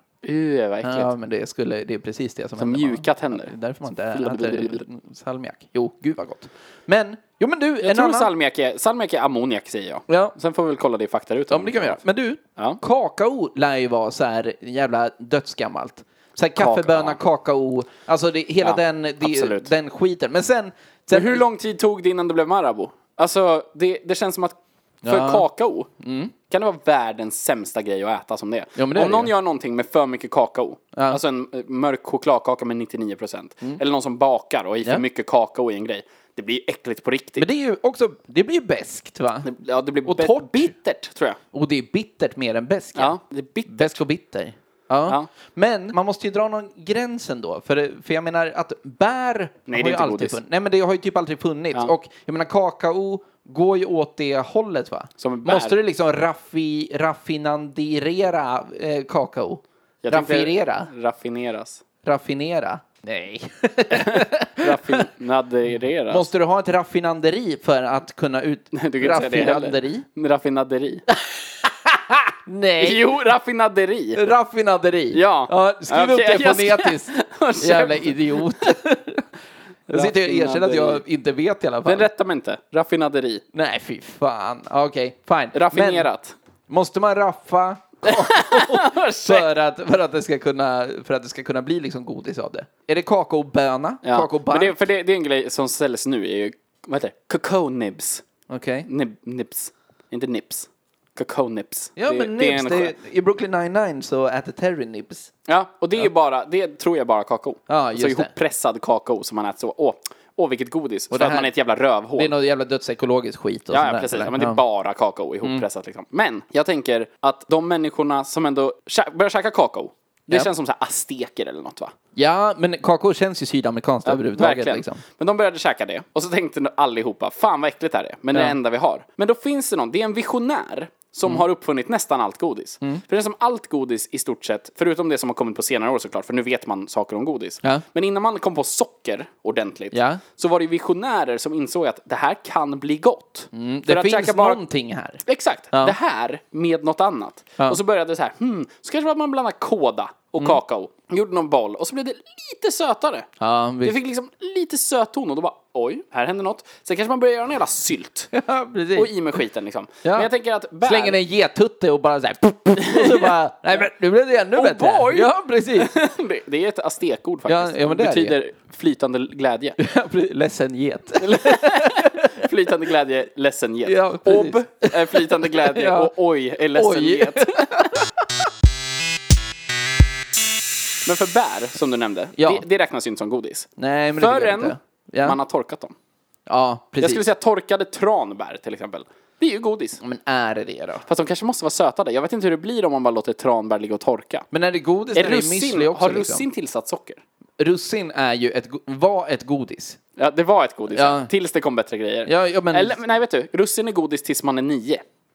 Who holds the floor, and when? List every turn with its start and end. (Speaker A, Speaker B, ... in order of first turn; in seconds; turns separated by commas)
Speaker A: 0.2-1.1, Speaker B: 0.8-8.3, Speaker A: 2.6-3.5, Speaker A: 4.1-4.8, Speaker A: 7.8-12.0, Speaker B: 10.1-10.3, Speaker B: 11.5-21.4, Speaker A: 16.6-17.2, Speaker A: 18.6-19.7, Speaker A: 21.1-25.9, Speaker B: 25.0-25.5, Speaker B: 26.0-26.3, Speaker A: 26.5-37.5, Speaker B: 28.8-29.3, Speaker B: 30.9-31.2, Speaker B: 37.4-39.5, Speaker A: 39.4-41.4, Speaker B: 40.0-40.7, Speaker B: 41.5-43.1, Speaker A: 42.9-44.0, Speaker B: 43.7-60.9, Speaker A: 49.7-50.4, Speaker A: 55.2-55.8, Speaker A: 60.0-61.8, Speaker B: 62.0-65.0, Speaker A: 63.9-66.3, Speaker B: 66.1-70.0, Speaker A: 68.7-71.0, Speaker B: 71.2-73.1, Speaker A: 72.8-74.2, Speaker B: 74.1-79.2, Speaker A: 75.1-78.7, Speaker A: 79.9-81.0, Speaker B: 79.9-82.1, Speaker A: 81.8-83.4, Speaker B: 83.5-86.1, Speaker A: 85.5-86.3, Speaker B: 86.7-94.8, Speaker A: 88.0-89.5, Speaker A: 94.0-98.2, Speaker B: 98.5-98.9, Speaker A: 98.8-102.9, Speaker B: 102.0-105.3, Speaker A: 105.5-112.3, Speaker B: 107.7-108.3, Speaker B: 111.1-111.5, Speaker B: 112.2-114.6, Speaker A: 113.7-121.9, Speaker B: 122.2-125.0, Speaker A: 124.0-144.6, Speaker B: 139.9-140.2, Speaker B: 143.5-145.2, Speaker A: 145.2-153.3, Speaker B: 153.4-154.0, Speaker A: 153.8-158.3, Speaker B: 158.3-159.1, Speaker A: 158.9-161.2, Speaker B: 160.0-160.3, Speaker B: 160.8-165.9, Speaker A: 162.8-163.3, Speaker A: 164.5-169.8, Speaker B: 167.4-168.4, Speaker B: 169.8-172.3, Speaker A: 171.2-177.9, Speaker B: 173.8-176.1, Speaker B: 176.7-178.4, Speaker A: 181.0-185.9, Speaker B: 182.4-182.6, Speaker B: 183.8-185.4, Speaker B: 186.5-187.2, Speaker A: 187.0-190.0, Speaker B: 190.0-191.0, Speaker A: 191.1-194.4, Speaker B: 194.5-196.4, Speaker A: 195.1-197.2, Speaker B: 197.6-200.0, Speaker A: 200.2-205.0, Speaker B: 200.9-201.3, Speaker B: 202.2-203.0